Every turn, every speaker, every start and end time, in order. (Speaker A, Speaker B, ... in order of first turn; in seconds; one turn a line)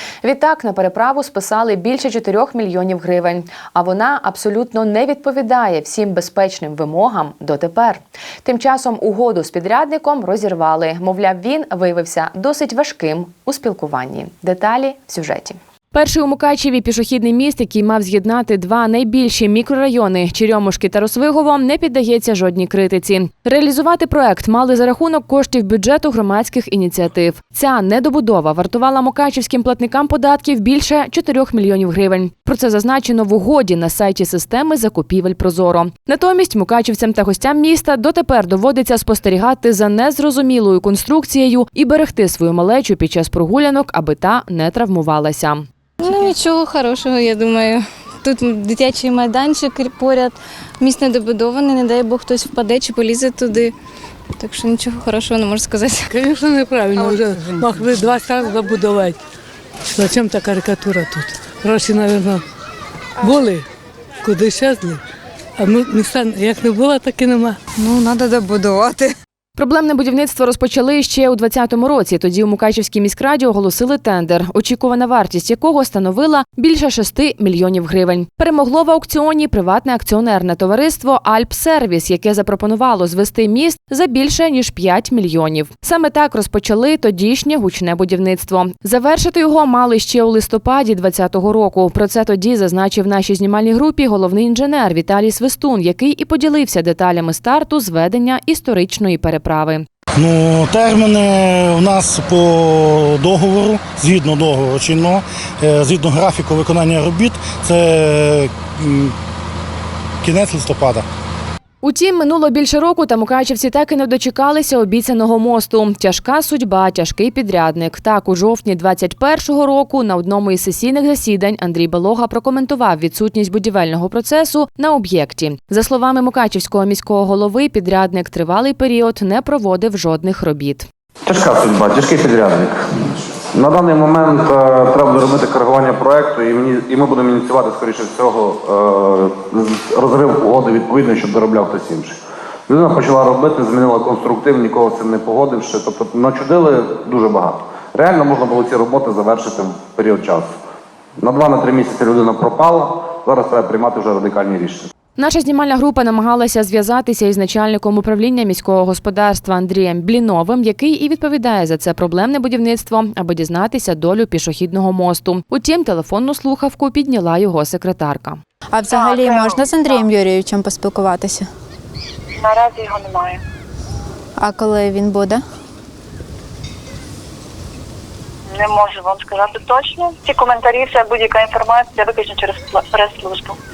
Speaker A: 0.2-45.7
Speaker B: 46.0-53.7
Speaker B: 54.4-56.3
Speaker C: 56.1-59.2
Speaker B: 56.9-57.9
Speaker C: 59.9-62.4
Speaker B: 63.2-63.5
Speaker C: 63.2-63.6
Speaker C: 64.2-65.0
Speaker C: 65.6-67.6
Speaker B: 67.8-69.1
Speaker A: 69.6-99.9
Speaker D: 100.2-109.1
Speaker D: 110.2-111.0
Speaker A: 111.8-130.9
Speaker E: 131.3-132.8
Speaker E: 133.5-142.2
Speaker E: 142.7-150.5
Speaker E: 151.2-154.9
Speaker A: 155.2-168.4
Speaker F: 168.7-171.5
Speaker G: 168.9-170.1
Speaker G: 172.4-173.4
Speaker F: 174.4-175.4
Speaker G: 178.5-183.6